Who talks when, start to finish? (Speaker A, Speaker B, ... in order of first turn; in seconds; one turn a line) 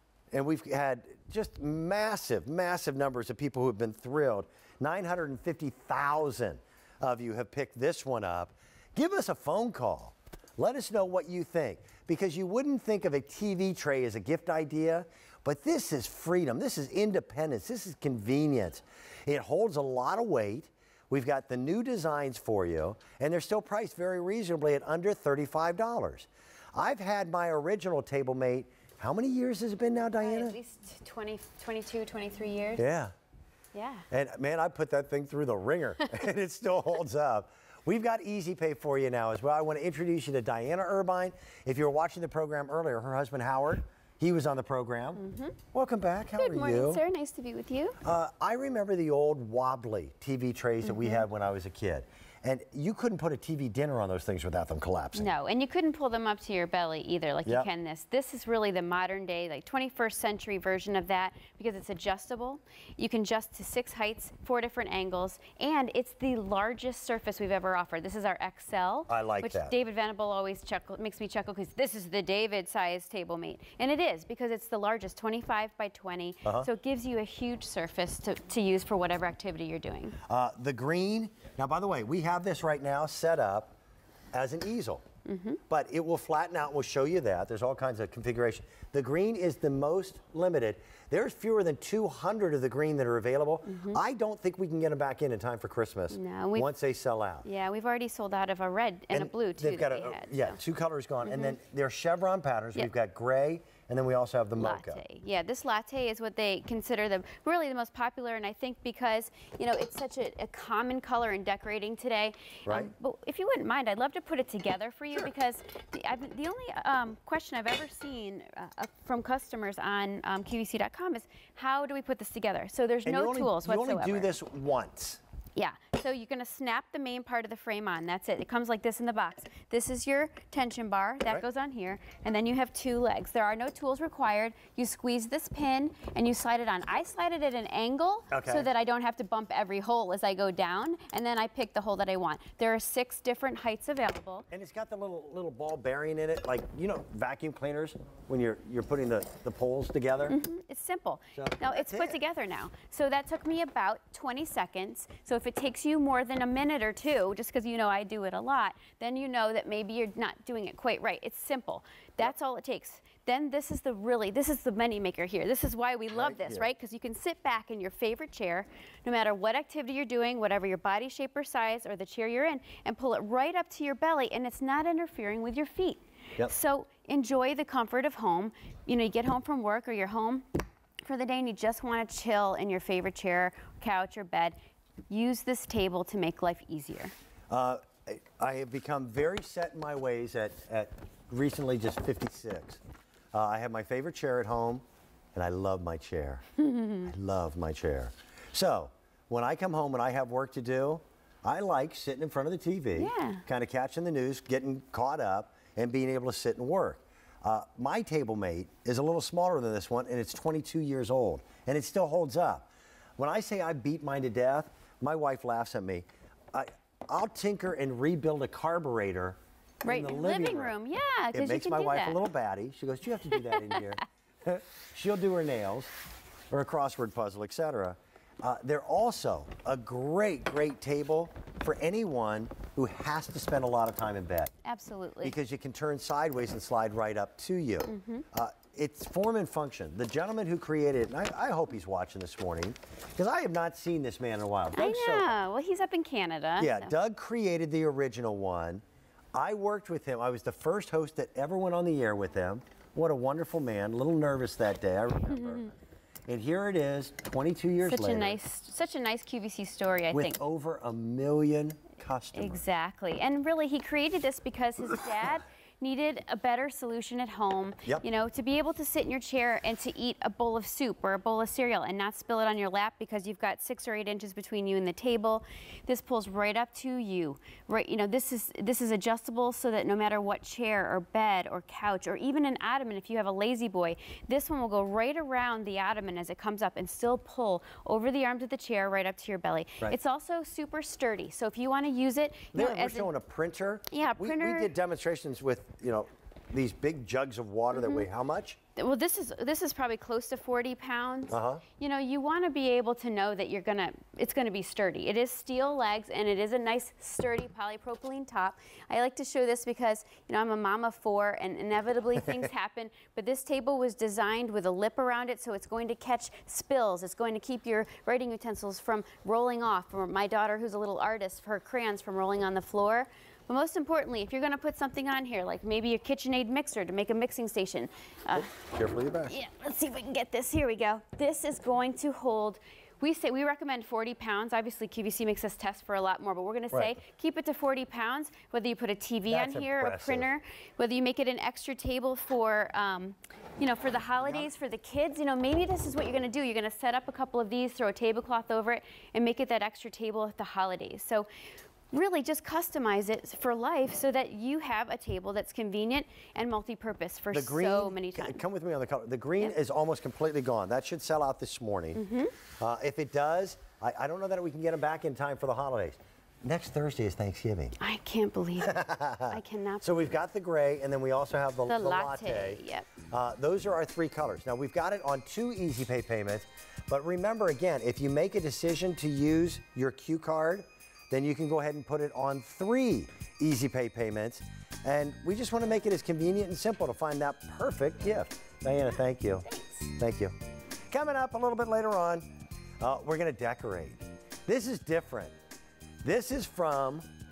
Speaker A: 0.3-30.6
Speaker B: 30.2-32.8
Speaker A: 32.8-33.1
Speaker B: 33.7-34.1
Speaker A: 34.1-47.0
Speaker B: 45.1-45.6
Speaker B: 46.4-48.0
Speaker A: 48.0-55.3
Speaker B: 50.8-51.2
Speaker B: 55.1-80.2
Speaker A: 69.1-69.7
Speaker A: 80.3-83.7
Speaker A: 84.3-85.0
Speaker B: 85.2-85.6
Speaker A: 85.7-97.4
Speaker B: 93.7-94.0
Speaker B: 96.1-96.7
Speaker B: 97.4-100.6
Speaker A: 99.1-105.0
Speaker B: 101.2-101.5
Speaker B: 104.5-124.3
Speaker A: 112.7-112.9
Speaker A: 123.0-125.2
Speaker B: 125.5-144.5
Speaker A: 138.3-138.7
Speaker A: 144.5-150.3
Speaker B: 150.3-180.5
Speaker A: 151.3-152.2
Speaker A: 166.1-166.7
Speaker B: 181.0-184.6
Speaker B: 185.1-187.1
Speaker A: 187.5-192.8
Speaker A: 193.3-194.8
Speaker A: 195.3-196.4
Speaker B: 196.6-197.1
Speaker A: 197.0-220.7
Speaker B: 202.9-203.4
Speaker B: 219.8-222.2
Speaker A: 221.3-225.9
Speaker B: 223.3-223.9
Speaker A: 226.5-234.5
Speaker B: 234.6-235.3
Speaker A: 235.2-245.3
Speaker B: 237.9-238.2
Speaker B: 244.7-246.9
Speaker A: 246.6-248.8
Speaker A: 249.3-255.7
Speaker B: 255.3-255.7
Speaker A: 256.3-258.4
Speaker B: 257.8-260.4
Speaker A: 260.1-262.6
Speaker B: 262.3-293.1
Speaker A: 292.5-298.6
Speaker B: 293.9-294.7
Speaker B: 297.7-298.1
Speaker B: 298.8-328.5
Speaker A: 301.3-301.6
Speaker A: 328.3-329.3
Speaker B: 329.2-351.3
Speaker A: 339.3-340.3
Speaker A: 344.2-344.5
Speaker B: 351.9-358.4
Speaker A: 357.3-367.8
Speaker B: 361.9-362.4
Speaker B: 367.8-368.7
Speaker A: 368.6-390.3
Speaker B: 369.3-370.0
Speaker B: 371.7-372.9
Speaker B: 389.4-389.9
Speaker A: 390.9-392.2
Speaker A: 392.8-395.3
Speaker A: 396.0-397.0